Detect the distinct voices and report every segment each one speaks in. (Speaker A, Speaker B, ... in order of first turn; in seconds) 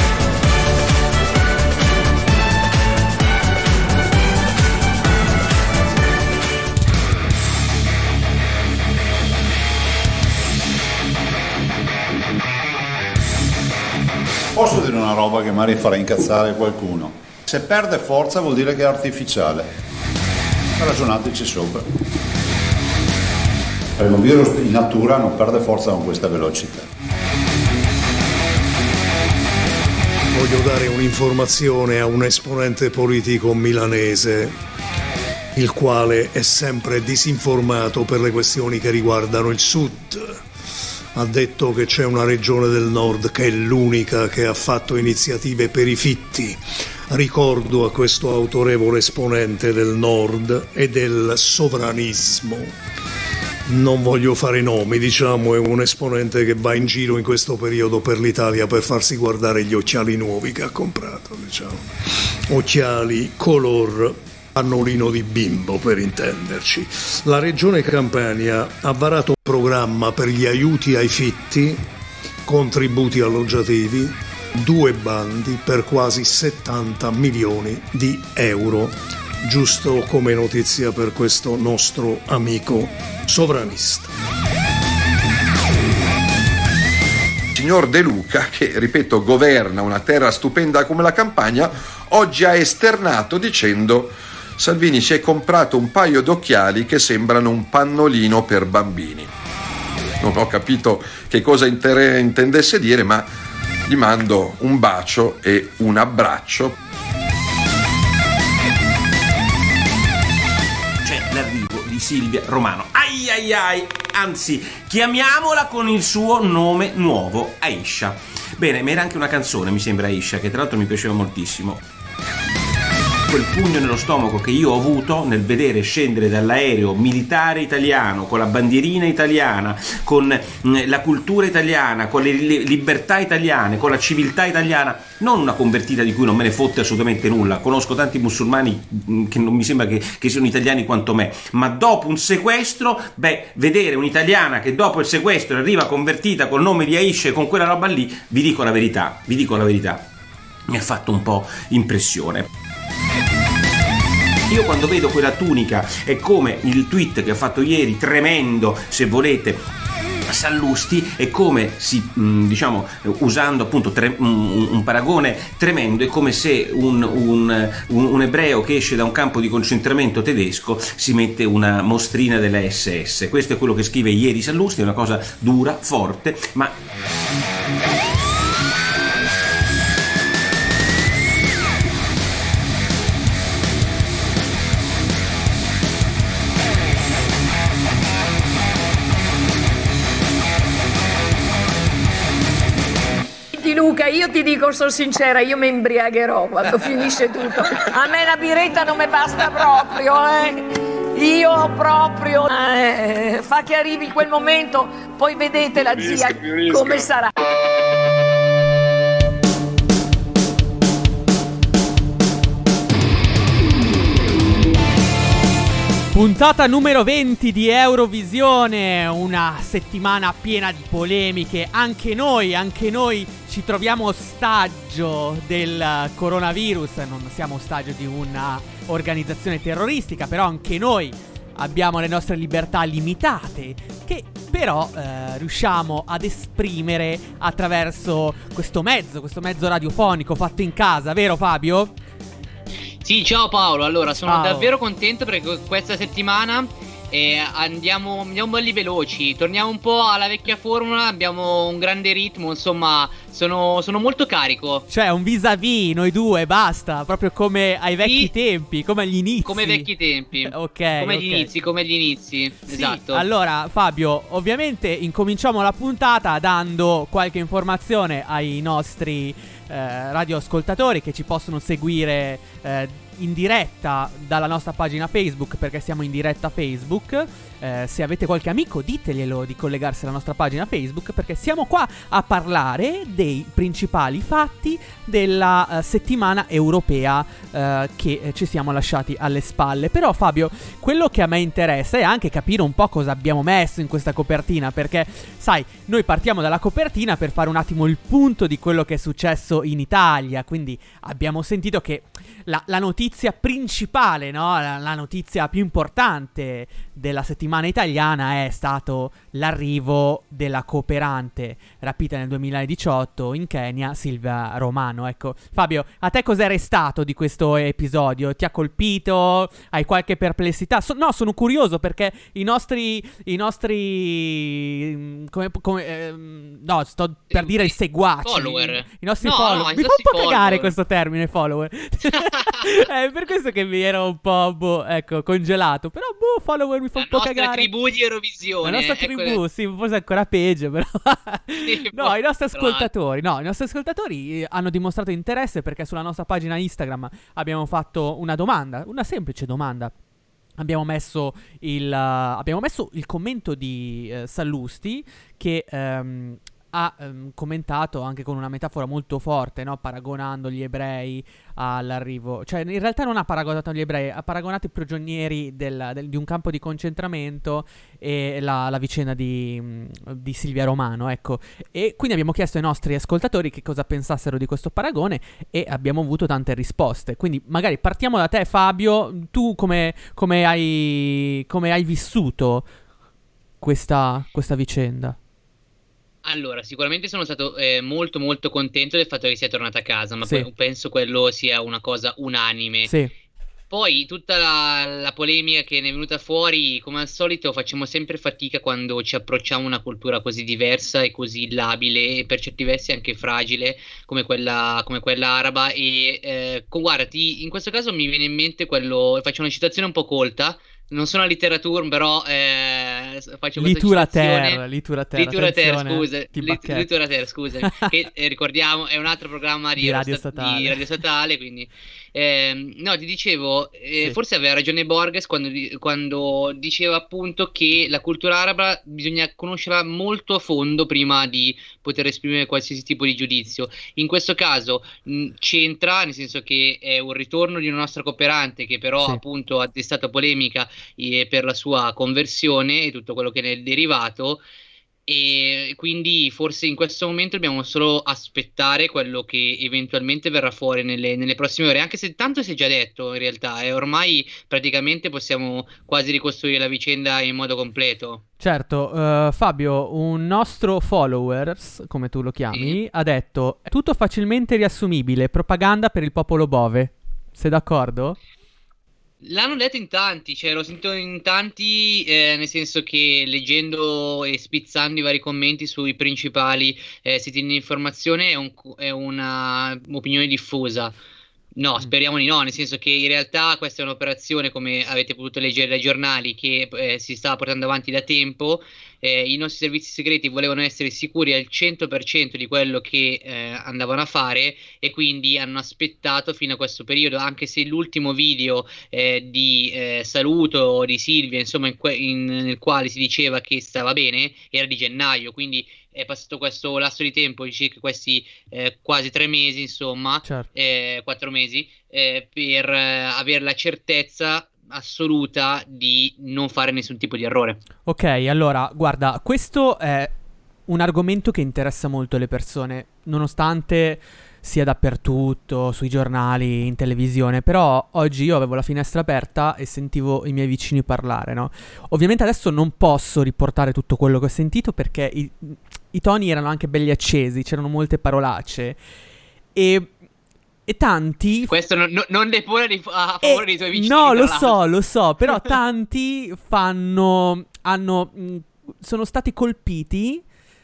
Speaker A: 14.5-19.7, 20.8-21.8, 24.0-26.9
Speaker B: 30.3-34.5, 35.5-40.4, 41.1-52.7, 53.6-71.8, 72.4-84.1
Speaker C: 87.5-99.3, 100.2-103.3, 103.9-106.7
Speaker D: 111.0-121.8, 123.3-150.1, 150.7-152.5, 154.5-159.6, 160.2-176.7
Speaker E: 193.5-207.3
Speaker F: 216.1-241.9, 244.2-244.7, 254.9-261.5, 262.6-337.7, 338.6-349.9, 350.6-382.7, 383.6-385.2, 392.8-393.1, 413.6-416.9, 417.6-417.9, 419.8-420.8, 458.4-468.2, 517.9-520.1, 520.7-538.8, 539.5-539.9, 540.7-541.5, 543.2-550.2
Speaker G: 243.0-254.8, 258.0-258.3, 259.4-263.3, 327.3-330.7, 332.2-332.6, 336.9-339.4, 341.6-342.9, 386.2-392.9, 393.7-414.6, 415.1-444.4, 445.1-458.2, 462.5-462.8, 469.2-480.9, 481.6-517.6, 541.5-544.6